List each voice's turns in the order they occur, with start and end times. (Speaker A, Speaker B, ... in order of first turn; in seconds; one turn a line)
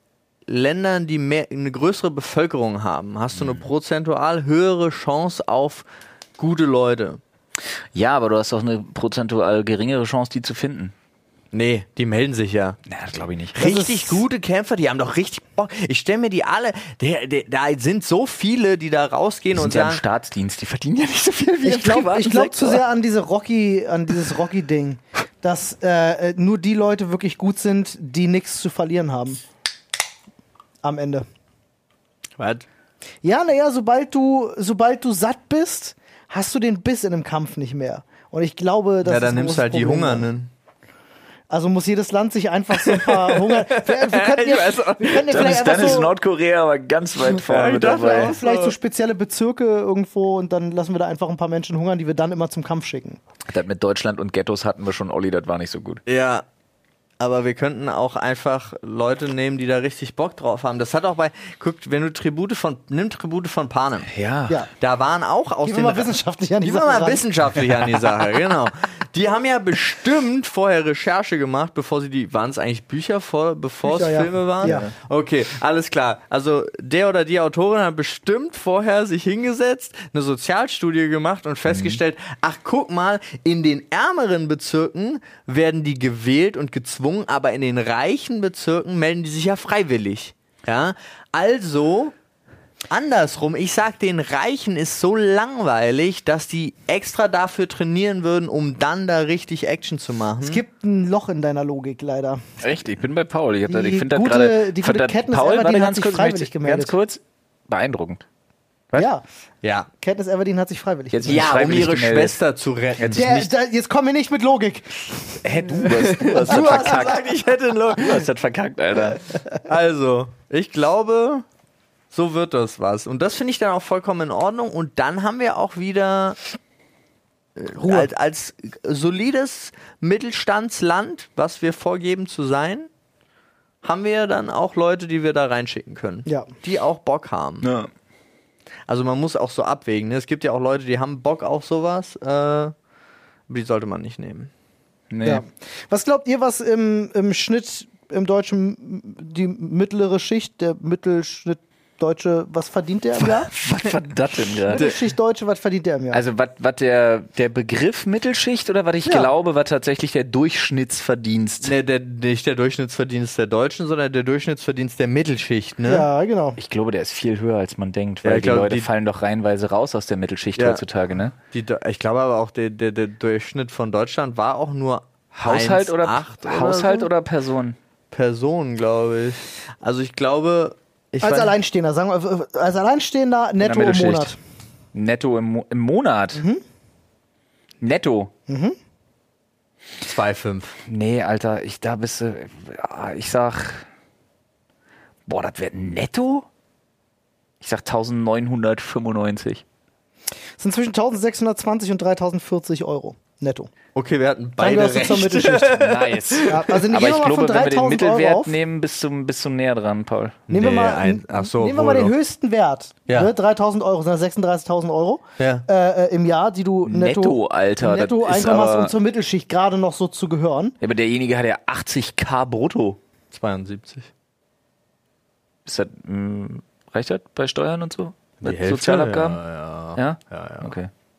Speaker A: 0.5-5.8
Speaker B: 3.4-3.6
Speaker A: 6.4-7.2
Speaker B: 7.9-10.9
Speaker A: 11.5-12.8
Speaker B: 12.9-13.6
Speaker A: 13.5-20.0
Speaker C: 13.6-14.2
Speaker B: 19.5-22.8
Speaker C: 21.6-29.4
Speaker C: 30.8-31.2
Speaker A: 32.4-32.6
Speaker C: 33.2-40.3
Speaker A: 39.0-40.5
Speaker C: 41.5-46.1
Speaker A: 42.7-45.9
Speaker B: 45.3-48.4
Speaker A: 47.3-48.7
Speaker C: 48.4-53.2
Speaker B: 53.5-56.0
Speaker A: 56.0-56.4
Speaker A: 57.2-64.1
Speaker B: 64.1-64.6
Speaker A: 64.7-92.1
Speaker C: 65.6-67.2
Speaker C: 73.8-74.9
Speaker B: 74.6-74.9
Speaker B: 81.7-82.0
Speaker A: 92.9-100.6
Speaker C: 100.4-102.4
Speaker B: 102.6-108.2
Speaker C: 103.7-106.9
Speaker C: 109.0-109.2
Speaker A: 109.6-109.9
Speaker C: 110.0-111.6
Speaker B: 111.1-112.4
Speaker A: 111.2-113.4
Speaker B: 113.0-113.5
Speaker C: 113.1-116.9
Speaker B: 115.4-117.3
Speaker A: 115.8-118.3
Speaker B: 117.9-119.2
Speaker A: 119.6-121.4
Speaker A: 122.1-126.4
Speaker A: 127.5-132.9
Speaker C: 127.8-128.1
Speaker A: 133.8-137.7
Speaker C: 136.2-136.5
Speaker B: 137.6-137.9
Speaker A: 138.9-142.7
Speaker A: 143.5-144.5
Speaker B: 145.1-145.4
Speaker C: 145.2-153.5
Speaker B: 153.2-154.8
Speaker C: 154.7-156.2
Speaker A: 154.7-155.0
Speaker B: 156.1-161.8
Speaker A: 161.6-166.1
Speaker C: 165.8-166.6
Speaker B: 166.6-171.3
Speaker A: 168.2-168.9
Speaker A: 170.6-170.8
Speaker A: 171.5-177.1
Speaker B: 175.3-177.8
Speaker A: 178.1-181.6
Speaker C: 181.2-184.3
Speaker B: 183.6-184.3
Speaker B: 184.9-186.4
Speaker C: 186.3-186.6
Speaker B: 187.8-188.3
Speaker C: 188.5-188.8
Speaker A: 190.0-190.8
Speaker B: 190.9-193.8
Speaker B: 195.3-196.4
Speaker B: 197.6-199.6
Speaker C: 200.6-203.7
Speaker A: 203.9-206.8
Speaker C: 204.6-205.8
Speaker B: 205.8-210.4
Speaker C: 206.4-208.6
Speaker A: 210.5-212.1
Speaker C: 210.5-220.7
Speaker A: 215.4-215.6
Speaker B: 216.8-218.9
Speaker B: 220.8-223.0
Speaker A: 223.3-224.1
Speaker B: 225.7-229.4
Speaker A: 228.4-230.7
Speaker B: 229.9-230.9